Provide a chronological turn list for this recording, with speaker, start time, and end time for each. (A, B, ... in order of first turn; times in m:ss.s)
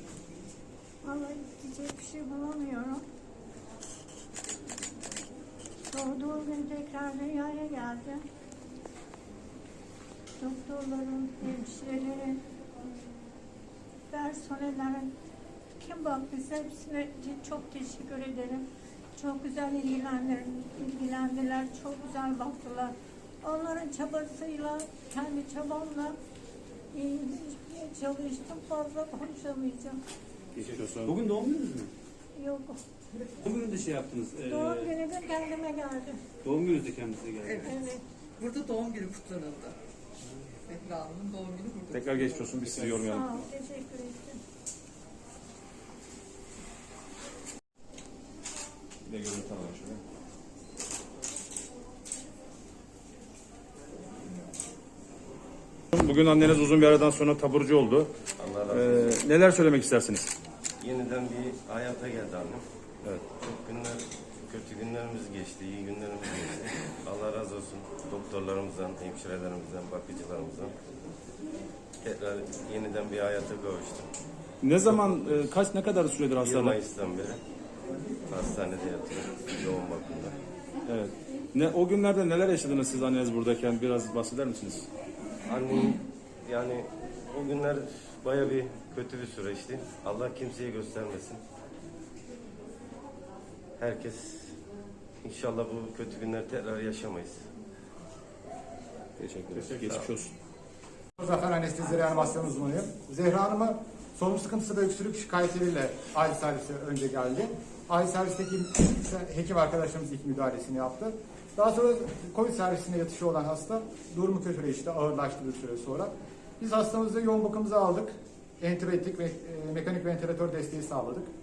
0:01.0-0:03.0 A
0:05.9-0:08.2 A
0:10.4-0:13.1 A
0:14.1-0:15.1 A
0:15.8-0:18.6 A
0:19.2-0:26.2 A
0:26.9-0:30.0 A
0:30.6-0:31.2 B
0:30.6-0:31.9 C
0:32.4-0:32.8 A
0:33.4-0:34.9 C
0:34.4-0:36.2 A
0:36.4-0:37.7 C
0:37.5-0:37.8 D
0:37.6-0:38.0 A
0:38.4-0:39.8 D
0:40.7-0:42.6 D
0:41.9-0:43.4 B
0:42.7-0:43.0 C
0:43.1-0:44.4 A
0:49.1-0:50.0 B
0:55.9-0:58.1 B
0:58.4-0:59.2 E
0:58.7-1:00.3 B
1:00.8-1:02.6 E
1:03.4-1:10.7 E
1:12.0-1:14.1 E
1:14.6-1:16.8 B
1:14.8-1:15.5 E
1:16.4-1:17.4 E
1:18.3-1:20.4 E
1:20.9-1:24.9 B
1:25.5-1:31.4 E
1:33.8-1:34.5 E
1:35.2-1:37.4 E
1:39.2-1:40.3 B
1:39.5-1:40.1 E
1:41.2-2:01.3 F